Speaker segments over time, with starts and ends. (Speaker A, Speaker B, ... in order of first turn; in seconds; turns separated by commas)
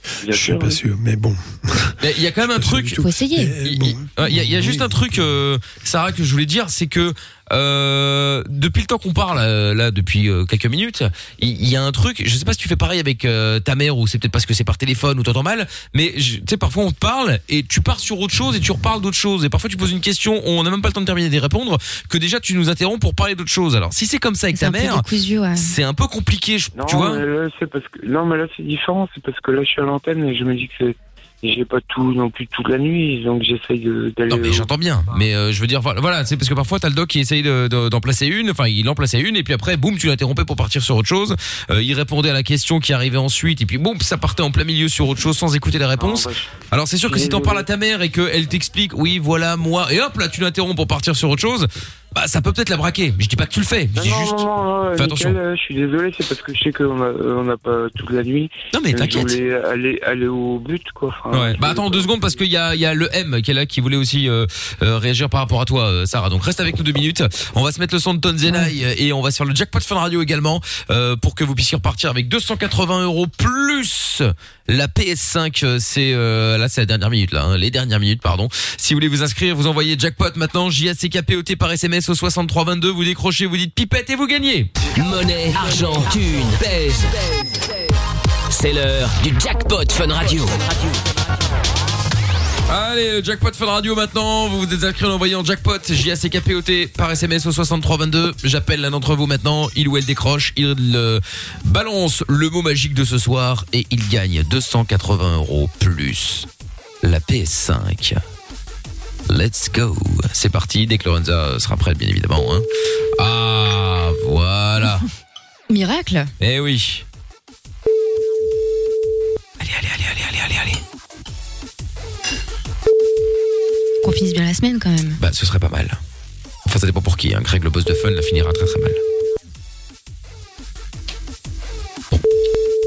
Speaker A: 0.2-5.3, Speaker B: 0.2-0.8, Speaker C: 2.0-3.0, Speaker D: 3.0-3.6, Speaker C: 3.6-25.0, Speaker D: 24.5-25.7, Speaker C: 25.6-27.2, Speaker B: 26.7-34.7, Speaker C: 34.3-54.4, Speaker B: 46.0-46.5, Speaker B: 47.0-47.7, Speaker B: 53.9-62.4, Speaker C: 55.0-55.4, Speaker C: 58.7-59.4, Speaker C: 61.3-84.7, Speaker E: 84.9-87.5, Speaker E: 88.5-90.8, Speaker C: 92.7-106.5, Speaker C: 107.0-108.2, Speaker C: 109.3-112.7, Speaker C: 113.2-115.1, Speaker D: 115.7-116.3, Speaker C: 116.4-117.0, Speaker C: 119.6-120.8, Speaker D: 124.0-125.2, Speaker C: 125.2-126.0, Speaker C: 126.7-129.0